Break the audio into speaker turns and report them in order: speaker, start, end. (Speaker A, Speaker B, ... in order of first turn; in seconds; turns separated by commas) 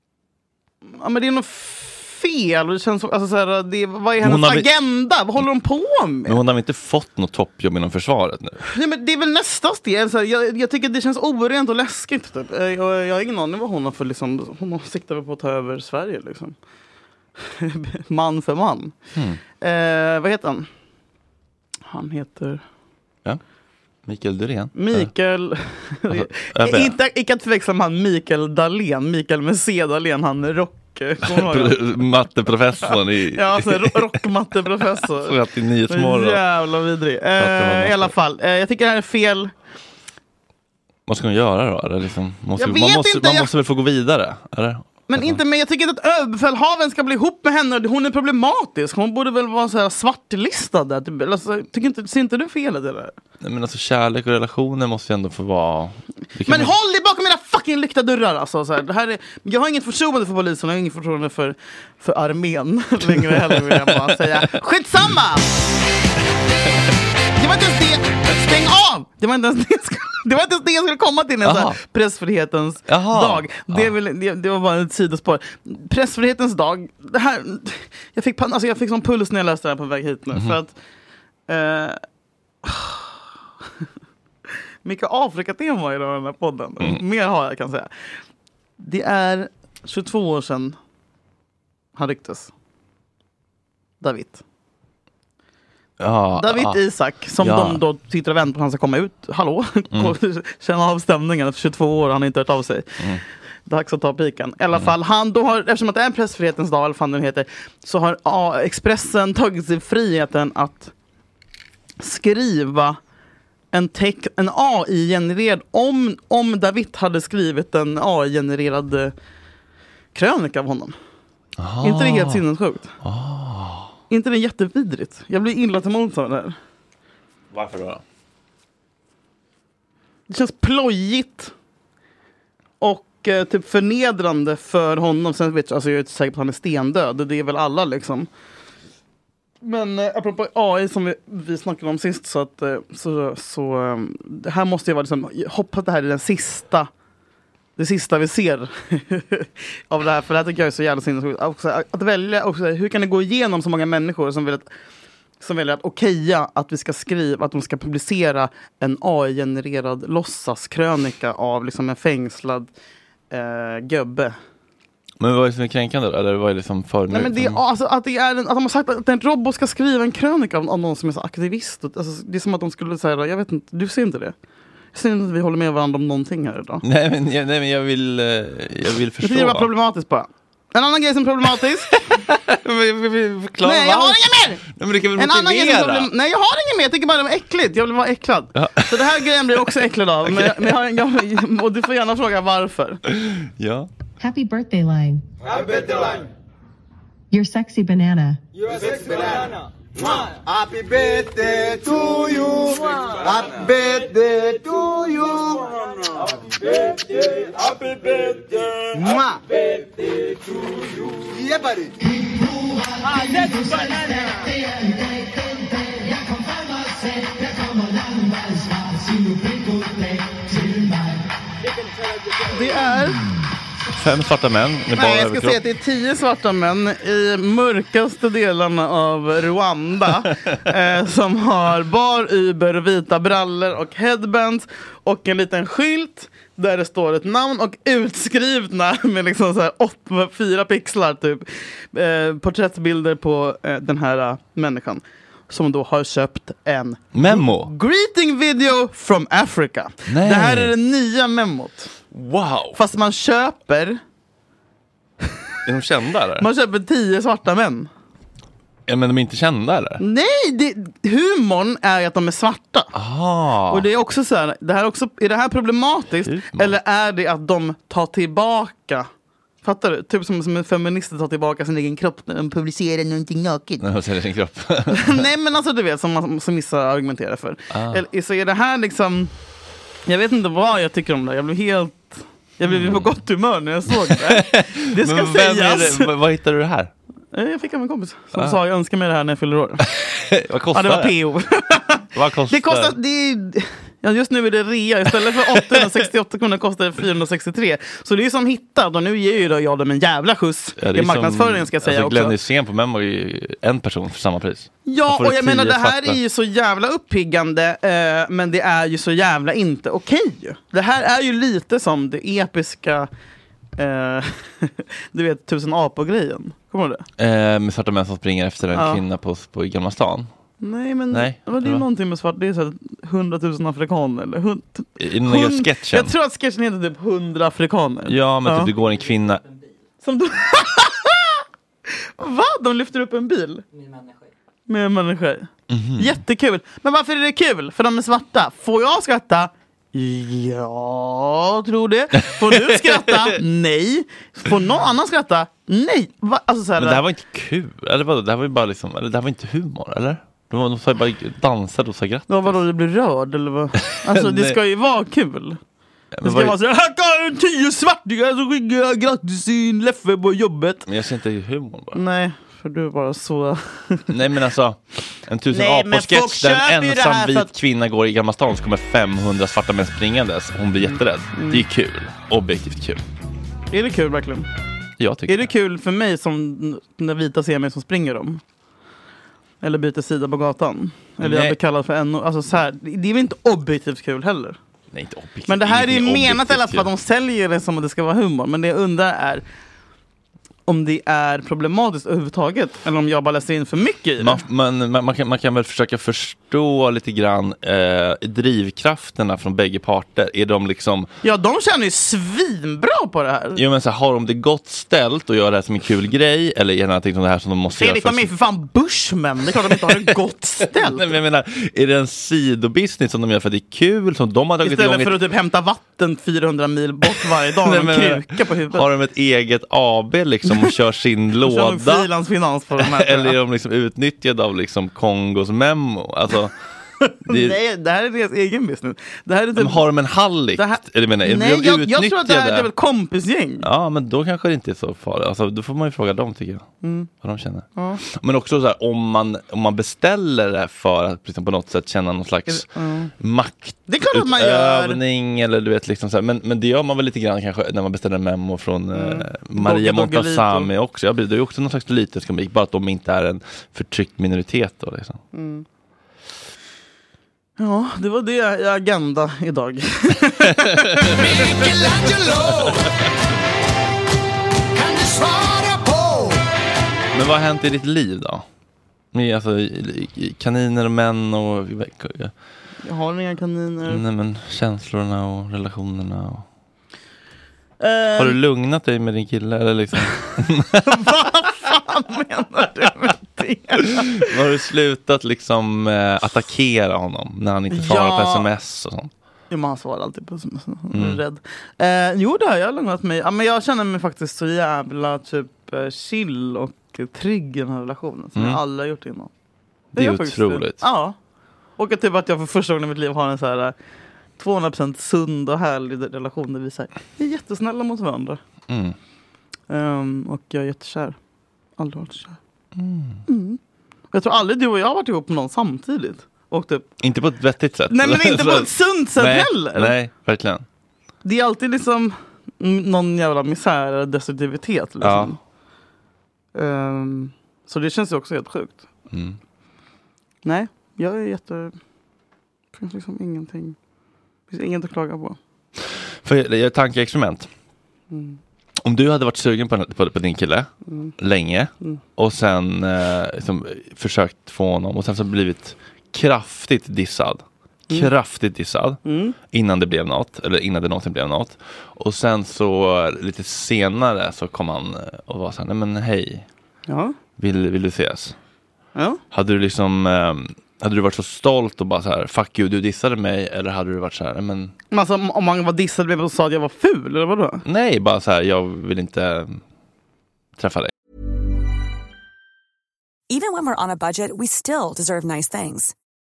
Speaker A: 1.0-6.4, Speaker B: 4.2-4.7, Speaker B: 6.3-8.6, Speaker A: 8.7-16.6, Speaker A: 17.4-18.9, Speaker B: 19.1-19.4, Speaker A: 19.6-20.7, Speaker A: 21.9-22.6, Speaker B: 24.1-25.1, Speaker A: 24.8-31.8, Speaker B: 26.1-27.0, Speaker B: 31.2-34.1, Speaker A: 32.9-35.4, Speaker B: 35.2-36.4, Speaker A: 35.9-39.5, Speaker B: 37.4-38.1, Speaker B: 41.1-45.4, Speaker A: 42.6-43.5, Speaker A: 45.1-53.1, Speaker B: 53.4-56.7, Speaker A: 56.5-65.5, Speaker B: 63.1-64.5, Speaker A: 67.4-80.7, Speaker B: 71.4-71.8, Speaker B: 72.9-73.9, Speaker A: 81.5-82.0, Speaker A: 82.6-83.2, Speaker A: 84.8-87.9, Speaker A: 88.8-90.8, Speaker A: 92.0-92.5, Speaker A: 94.0-94.4, Speaker B: 96.0-96.8, Speaker A: 96.4-103.0, Speaker B: 97.4-97.8, Speaker A: 103.7-110.9, Speaker A: 112.0-113.0, Speaker A: 113.7-119.1, Speaker A: 120.1-121.0, Speaker B: 121.6-122.4, Speaker A: 121.8-122.9, Speaker B: 123.0-123.9, Speaker A: 124.1-126.6, Speaker B: 127.5-128.0, Speaker A: 130.3-131.5, Speaker A: 132.8-138.3, Speaker A: 139.6-146.9, Speaker A: 147.8-154.7, Speaker A: 155.4-162.7, Speaker A: 163.3-164.4, Speaker B: 165.2-167.6, Speaker A: 167.1-174.3, Speaker A: 174.9-176.8, Speaker B: 176.8-179.7, Speaker A: 179.2-182.1, Speaker B: 182.1-186.1, Speaker A: 183.6-184.6, Speaker A: 185.2-193.0, Speaker B: 188.6-189.2, Speaker B: 190.3-190.8, Speaker B: 193.1-193.9, Speaker C: 194.2-195.2, Speaker C: 197.3-198.4, Speaker D: 198.9-199.3, Speaker D: 200.1-205.8, Speaker D: 208.9-209.5, Speaker D: 211.1-213.1, Speaker D: 217.0-221.2, Speaker A: 222.5-223.2, Speaker B: 223.9-225.6, Speaker A: 225.0-251.9, Speaker B: 247.1-247.7, Speaker B: 250.1-250.7, Speaker B: 252.1-252.8, Speaker A: 252.8-254.0, Speaker B: 255.7-256.5, Speaker A: 256.4-257.9, Speaker B: 258.9-260.0, Speaker A: 260.0-262.9, Speaker B: 262.9-263.9, Speaker A: 263.7-269.1, Speaker B: 266.3-266.8, Speaker A: 269.6-273.9, Speaker B: 273.8-275.2, Speaker A: 274.9-279.3, Speaker B: 277.7-278.0, Speaker A: 280.1-286.1, Speaker B: 282.7-283.1, Speaker B: 284.0-286.9, Speaker A: 287.3-289.9, Speaker B: 289.9-291.1, Speaker A: 290.7-302.4, Speaker B: 292.1-293.0, Speaker B: 300.8-306.2, Speaker A: 304.9-313.1, Speaker A: 313.8-317.0, Speaker B: 317.2-320.3, Speaker A: 318.7-319.0, Speaker A: 320.6-328.7, Speaker B: 321.1-321.9, Speaker B: 325.0-326.1, Speaker B: 328.1-329.4, Speaker A: 330.0-331.4, Speaker A: 332.2-333.7, Speaker A: 334.7-347.0, Speaker B: 335.7-336.2, Speaker B: 342.3-343.3, Speaker B: 346.8-352.6, Speaker A: 352.3-355.6, Speaker B: 353.9-354.6, Speaker B: 356.1-356.6, Speaker A: 356.2-360.9, Speaker B: 360.9-362.0, Speaker A: 361.9-364.1, Speaker B: 364.1-373.0, Speaker A: 365.5-367.5, Speaker A: 370.9-371.6, Speaker A: 373.7-374.5, Speaker B: 375.0-375.5, Speaker A: 375.3-378.4, Speaker A: 379.6-384.6, Speaker B: 381.2-381.6, Speaker B: 384.9-386.9, Speaker A: 385.5-389.4, Speaker A: 390.7-394.4, Speaker B: 394.2-401.1, Speaker A: 401.2-403.6, Speaker B: 403.6-408.3, Speaker A: 407.8-411.1, Speaker B: 409.7-410.1, Speaker B: 410.7-415.2, Speaker A: 414.6-418.9, Speaker B: 417.6-422.1, Speaker A: 421.4-423.4, Speaker B: 422.8-426.5, Speaker A: 427.3-429.9, Speaker B: 427.3-427.6, Speaker B: 429.6-432.7, Speaker A: 430.6-433.7, Speaker B: 433.6-436.7, Speaker A: 436.8-437.1, Speaker B: 437.2-442.7, Speaker A: 437.8-438.0, Speaker A: 442.5-443.1, Speaker B: 443.2-455.2, Speaker A: 443.9-445.0, Speaker A: 448.9-450.7, Speaker A: 455.3-455.6, Speaker A: 457.6-461.2, Speaker D: 461.2-462.9, Speaker D: 464.8-466.5, Speaker B: 467.1-468.4, Speaker B: 469.1-472.3, Speaker A: 472.8-474.0, Speaker B: 473.9-476.4, Speaker A: 477.8-478.4, Speaker B: 478.2-481.0, Speaker A: 480.8-484.3, Speaker B: 484.2-489.1, Speaker A: 487.7-488.5, Speaker A: 489.5-499.3, Speaker B: 490.9-491.2, Speaker B: 498.4-498.6, Speaker B: 499.9-500.8, Speaker A: 499.9-501.2, Speaker A: 501.8-503.8, Speaker A: 504.4-508.4, Speaker B: 508.7-509.0, Speaker A: 509.7-511.2, Speaker A: 511.8-512.4, Speaker B: 512.8-513.2, Speaker A: 513.3-513.6, Speaker A: 514.1-516.9, Speaker B: 517.0-520.6, Speaker A: 517.9-519.9, Speaker A: 521.2-525.4, Speaker B: 525.0-525.4, Speaker A: 526.5-528.9, Speaker B: 529.1-529.4, Speaker A: 530.5-531.8, Speaker A: 532.8-533.8, Speaker A: 534.5-535.4, Speaker B: 536.2-537.5, Speaker A: 538.1-538.4, Speaker B: 538.8-556.5, Speaker A: 540.9-541.1, Speaker A: 549.0-549.4, Speaker A: 556.9-557.1, Speaker B: 557.4-558.4, Speaker A: 559.0-559.2, Speaker B: 559.3-564.7, Speaker A: 564.9-567.6, Speaker B: 567.6-569.6, Speaker B: 570.6-570.9, Speaker E: 573.3-575.9